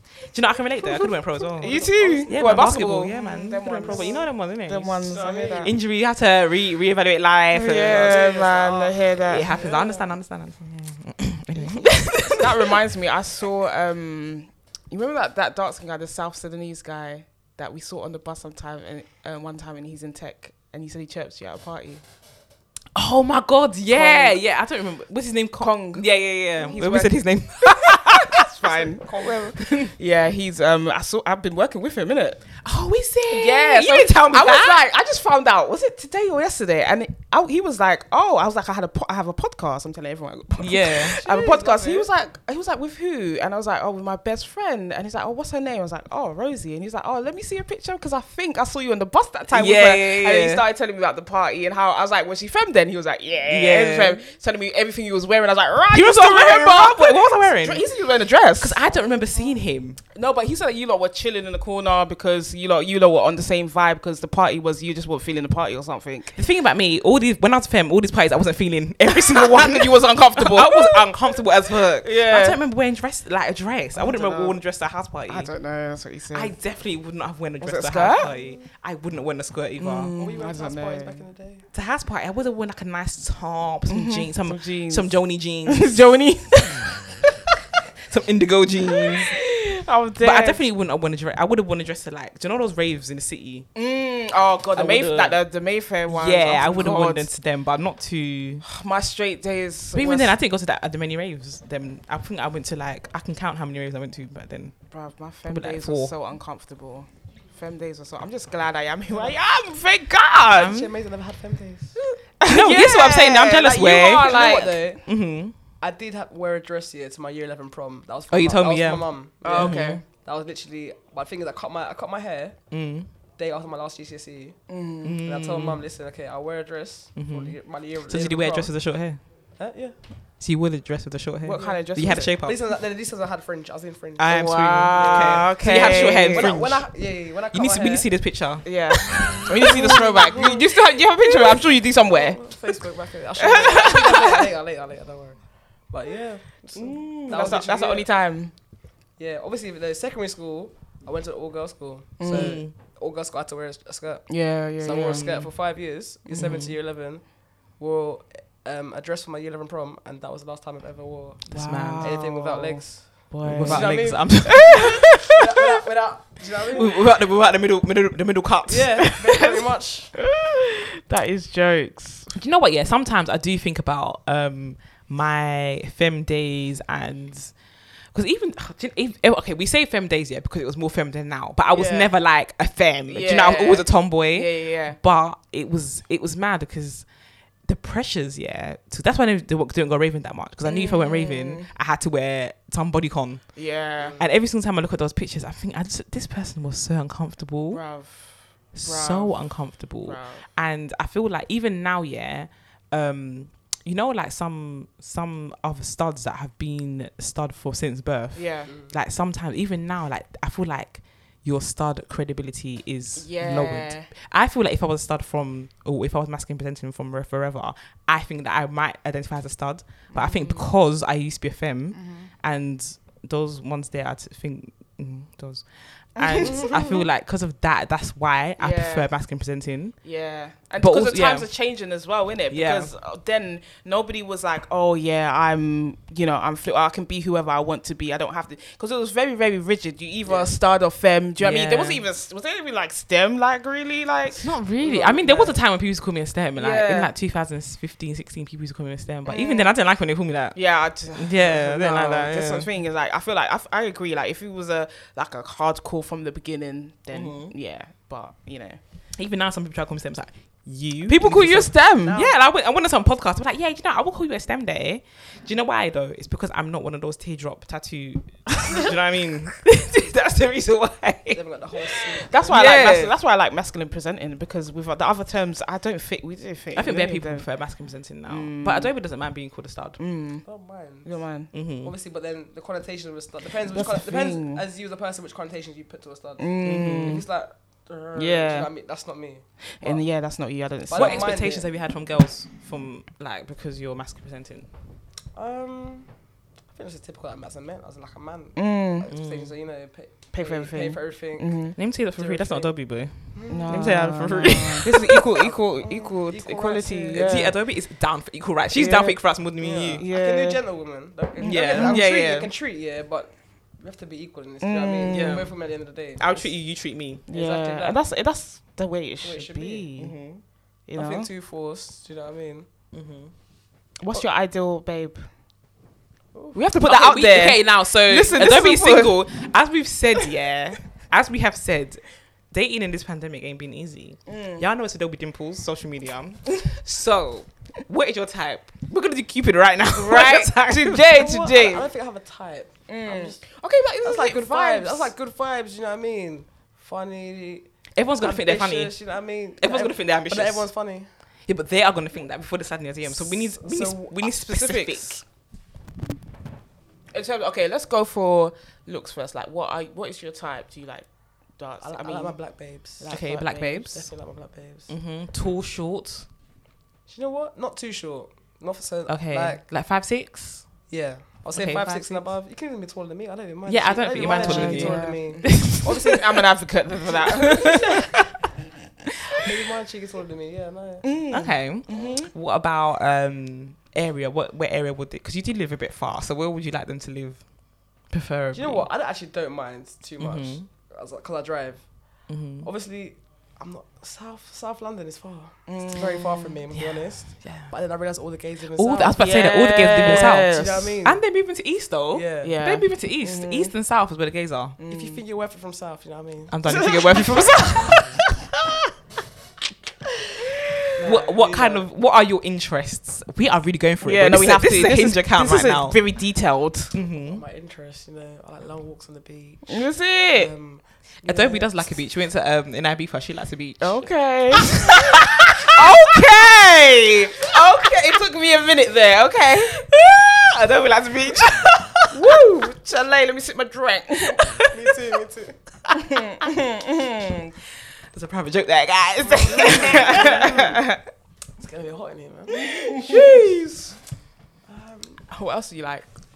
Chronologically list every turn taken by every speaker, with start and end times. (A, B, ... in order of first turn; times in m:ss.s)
0:00.3-0:08.3 A
0:01.0-0:05.8 B
0:01.6-0:02.7 C
0:03.8-0:04.2 C
0:05.0-0:05.7 C
0:07.5-0:09.6 B
0:07.7-0:10.1 C
0:09.3-0:12.8 A
0:11.6-0:22.0 B
0:22.9-0:28.5 A
0:23.9-0:24.4 B
0:25.6-0:32.5 B
0:28.6-0:29.5 C
0:29.6-0:29.9 A
0:32.6-0:34.8 A
0:33.3-0:58.8 B
0:40.6-0:41.2 A
0:41.0-0:42.1 C
0:49.5-0:50.6 A
0:53.5-0:54.2 A
0:55.9-0:57.8 A
0:58.6-1:00.0 A
1:00.1-1:06.4 B
1:06.3-1:15.5 A
1:09.1-1:11.4 B
1:12.0-1:12.6 B
1:13.9-1:14.6 B
1:15.3-1:16.5 B
1:16.3-1:20.1 A
1:17.6-1:18.3 B
1:18.2-1:18.6 C
1:19.8-1:21.2 B
1:20.2-1:21.7 C
1:21.7-1:26.8 A
1:23.9-1:27.1 B
1:28.1-1:29.4 A
1:28.9-1:30.6 B
1:30.2-1:33.7 A
1:33.7-1:37.3 B
1:34.7-1:35.4 A
1:36.1-1:38.6 A
1:38.6-1:40.3 B
1:39.9-1:44.8 A
1:44.9-1:50.8 B
1:45.5-1:46.1 A
1:50.5-1:50.9 A
1:50.6-1:52.0 C
1:52.4-1:54.8 B
1:52.4-1:55.6 A
1:54.1-1:55.0 C
1:55.8-2:02.6 C
1:58.3-2:00.0 A
1:59.4-2:00.0 B
2:02.7-2:03.1 A
2:03.4-2:04.6 C
2:04.7-2:05.2 B
2:05.0-2:05.8 A
2:05.2-2:08.7 C
2:07.2-2:09.2 A
2:09.6-2:10.0 C
2:10.4-2:12.6 A
2:11.4-2:12.3 B
2:11.5-2:18.1 C
2:14.2-2:20.1 A
2:14.3-2:16.5 B
2:18.6-2:22.7 B
2:19.2-2:20.6 C
2:21.3-2:28.1 C
2:23.4-2:24.4 B
2:26.7-2:28.5 B
2:29.2-2:47.0 C
2:32.2-2:32.6 B
2:32.2-2:32.7 A
2:34.3-2:35.3 B
2:34.9-2:35.5 A
2:36.3-2:36.8 A
2:41.5-2:45.3 A
2:41.5-2:42.2 B
2:43.3-2:45.2 B
2:46.7-2:49.7 A
2:48.7-2:50.1 C
2:49.2-2:49.6 B
2:50.2-2:52.3 B
2:52.3-2:57.6 A
2:58.1-3:07.0 A
3:01.7-3:02.1 B
3:03.1-3:05.0 B
3:07.6-3:17.9 A
3:10.6-3:11.7 B
3:13.5-3:14.2 B
3:14.0-3:14.3 C
3:17.7-3:19.4 B
3:18.7-3:50.0 A
3:20.0-3:20.4 B
3:28.3-3:28.7 B
3:28.6-3:28.9 C
3:33.2-3:34.1 B
3:40.1-3:40.7 B
3:41.9-3:42.3 B
3:46.2-3:47.0 B
3:46.4-3:46.7 C
3:48.6-3:49.1 B
3:50.0-4:05.5 B
3:50.8-3:51.5 A
3:52.5-3:52.9 A
4:01.4-4:02.0 A
4:04.3-4:10.6 A
4:06.6-4:07.1 B
4:09.2-4:09.7 B
4:10.5-4:18.8 B
4:11.1-4:12.7 A
4:17.1-4:17.5 A
4:19.2-4:31.4 A
4:21.0-4:22.2 B
4:22.0-4:22.4 C
4:31.3-4:32.6 C
4:32.2-4:37.4 B
4:32.5-4:33.1 A
4:36.7-4:40.0 A
4:38.3-4:38.9 B
4:40.0-4:40.4 B
4:40.4-4:41.2 C
4:41.0-4:41.5 B
4:41.5-4:41.9 A
4:41.8-4:50.0 C
4:43.7-4:44.6 B
4:46.4-4:47.2 B
4:46.6-4:47.2 A
4:48.2-4:48.7 B
4:49.8-4:51.4 B
4:50.9-4:51.7 C
4:50.9-4:54.7 A
4:55.3-4:56.1 C
4:56.7-5:02.7 C
4:58.6-4:59.1 B
4:59.1-4:59.5 A
5:00.3-5:01.8 B
5:01.8-5:05.4 A
5:03.3-5:04.0 C
5:03.5-5:07.6 B
5:05.1-5:07.4 C
5:07.1-5:10.0 A
5:08.7-5:09.2 B
5:09.6-5:16.5 C
5:09.9-5:10.6 B
5:11.4-5:12.4 B
5:11.4-5:12.4 A
5:14.6-5:15.5 B
5:15.0-5:15.5 A
5:16.2-5:17.2 A
5:17.3-5:20.2 B
5:17.3-5:18.0 C
5:19.2-5:19.9 C
5:20.0-5:20.4 A
5:20.9-5:21.3 B
5:20.9-5:22.7 C
5:22.9-5:23.3 A
5:24.0-5:25.2 B
5:26.3-5:26.6 C
5:26.5-5:29.2 B
5:26.8-5:41.3 A
5:34.3-5:34.6 B
5:39.9-5:41.9 B
5:41.0-5:43.4 C
5:42.9-5:45.1 B
5:44.0-5:51.1 C
5:48.0-5:49.0 A
5:49.6-5:50.7 A
5:51.5-5:55.2 A
5:53.4-5:54.1 C
5:54.2-5:55.2 B
5:57.1-6:02.3 B
6:01.8-6:03.2 C
6:03.0-6:03.9 B
6:03.1-6:04.1 A
6:03.8-6:04.9 C
6:04.9-6:06.3 A
6:07.1-6:09.6 C
6:09.1-6:10.8 A
6:10.9-6:16.2 C
6:11.5-6:12.3 A
6:13.7-6:16.2 A
6:14.2-6:18.0 B
6:17.1-6:17.9 C
6:19.4-6:21.1 C
6:21.0-6:22.3 B
6:21.3-6:27.5 A
6:28.1-6:28.8 A
6:28.5-6:39.2 C
6:30.2-6:30.7 A
6:32.3-6:32.7 A
6:35.7-6:36.6 B
6:36.7-6:37.7 A
6:38.8-6:44.8 A
6:39.2-6:40.9 B
6:40.0-6:41.2 C
6:42.1-6:42.5 C
6:42.4-6:43.7 B
6:44.8-6:45.2 B
6:44.9-6:46.9 C
6:46.5-6:48.2 A
6:46.7-6:48.0 B
6:51.0-6:51.8 C
6:51.0-6:56.0 A
6:54.0-6:57.0 B
6:56.9-6:57.4 A
6:57.2-6:59.8 C
6:59.7-7:00.5 B
7:00.3-7:01.8 C
7:01.2-7:07.6 A
7:03.8-7:09.8 B
7:09.5-7:12.4 A
7:12.1-7:14.6 B
7:14.4-7:14.7 A
7:14.7-7:15.6 C
7:15.9-7:17.5 B
7:18.1-7:20.9 A
7:19.2-7:20.8 C
7:19.4-7:20.9 B
7:21.6-7:22.9 C
7:22.5-7:23.9 B
7:23.0-7:23.7 A
7:24.7-7:25.2 C
7:25.3-7:26.1 A